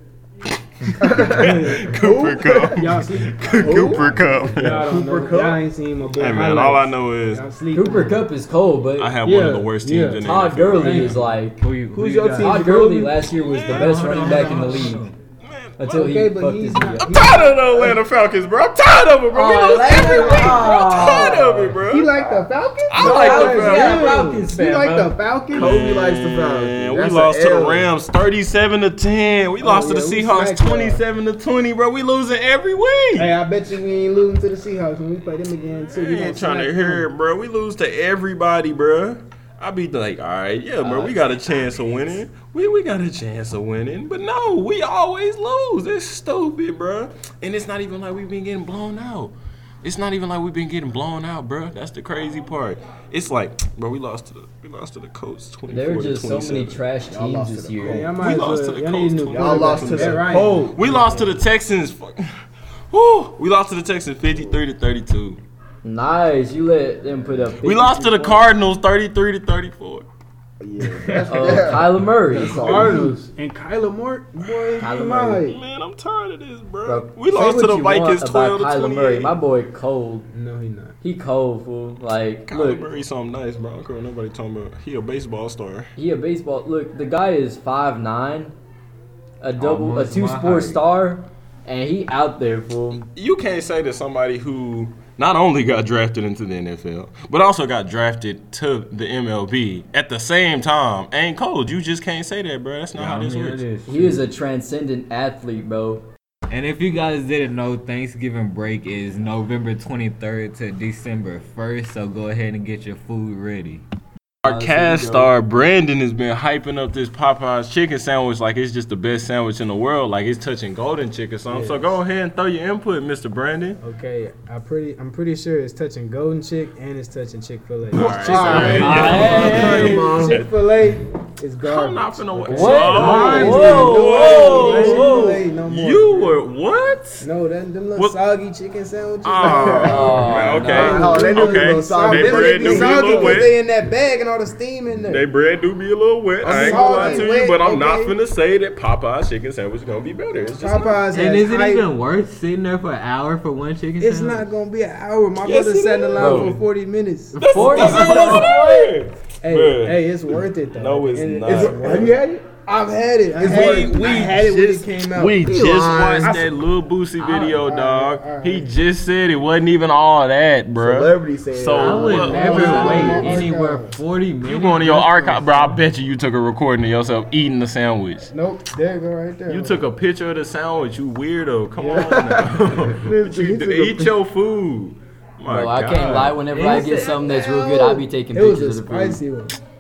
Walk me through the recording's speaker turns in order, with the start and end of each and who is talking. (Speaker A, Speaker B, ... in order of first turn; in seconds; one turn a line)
Speaker A: 1.0-2.0
Speaker B: 1.1-2.8
Speaker C: 1.3-5.0
Speaker A: 2.7-8.3
Speaker B: 3.5-5.6
Speaker C: 6.2-7.5
Speaker D: 7.7-9.1
Speaker C: 9.0-11.2
Speaker A: 9.2-10.2
Speaker D: 10.2-11.7
Speaker E: 10.8-12.7
Speaker A: 11.9-13.2
Speaker B: 12.0-12.4
Speaker D: 12.4-15.1
Speaker C: 13.3-14.9
Speaker E: 13.7-15.2
Speaker C: 15.4-15.9
Speaker D: 15.8-17.2
Speaker A: 15.9-18.1
Speaker C: 17.0-22.2
Speaker D: 19.3-21.8
Speaker A: 19.9-25.7
Speaker C: 22.9-24.2
Speaker D: 23.0-25.1
Speaker B: 25.5-27.9
Speaker C: 25.5-33.3
Speaker A: 29.6-31.0
Speaker A: 33.2-37.1
Speaker C: 35.9-56.8
Speaker A: 40.8-41.2
Speaker D: 55.7-58.1
Speaker B: 57.1-58.1
Speaker A: 57.8-61.0
Speaker C: 58.2-62.3
Speaker B: 59.3-60.8
Speaker C: 62.9-65.4
Speaker D: 65.8-68.5
Speaker C: 67.6-70.1
Speaker B: 70.6-73.1
Speaker A: 70.8-71.6
Speaker D: 71.3-73.1
Speaker A: 72.3-75.6
Speaker C: 74.4-74.9
Speaker D: 74.8-75.5
Speaker C: 75.5-79.4
Speaker D: 76.8-80.3
Speaker A: 80.3-81.0
Speaker D: 81.0-82.9
Speaker C: 82.5-85.9
Speaker D: 86.0-88.5
Speaker D: 89.4-93.0
Speaker E: 89.6-90.8
Speaker C: 92.9-103.6
Speaker E: 102.9-104.2
Speaker D: 103.9-106.1
Speaker E: 106.5-113.8
Speaker C: 114.4-123.8
Speaker D: 114.5-115.3
Speaker A: 121.5-122.0
Speaker A: 123.8-136.4
Speaker C: 127.9-130.7
Speaker B: 128.0-130.4
Speaker D: 128.6-130.1
Speaker C: 131.6-137.3
Speaker D: 132.5-135.4
Speaker E: 133.0-133.4
Speaker A: 137.2-145.3
Speaker C: 139.2-143.6
Speaker B: 139.4-140.2
Speaker D: 139.8-141.2
Speaker B: 140.7-143.5
Speaker C: 145.0-151.2
Speaker B: 146.4-147.3
Speaker A: 146.4-148.2
Speaker A: 150.6-151.9
Speaker E: 151.1-154.5
Speaker A: 154.0-158.7
Speaker C: 155.4-156.6
Speaker D: 156.2-156.6
Speaker D: 157.4-158.8
Speaker C: 157.4-162.1
Speaker A: 159.4-165.5
Speaker B: 161.5-162.5
Speaker B: 163.3-163.9
Speaker C: 163.4-173.4
Speaker B: 165.4-166.5
Speaker A: 166.2-166.5
Speaker A: 167.3-168.7
Speaker B: 170.8-173.1
Speaker E: 171.7-175.8
Speaker A: 172.2-174.0
Speaker C: 174.4-178.3
Speaker A: 178.3-179.8
Speaker C: 179.5-186.8
Speaker A: 181.8-182.5
Speaker B: 182.0-182.4
Speaker B: 182.9-184.1
Speaker D: 185.5-189.2
Speaker A: 186.6-189.6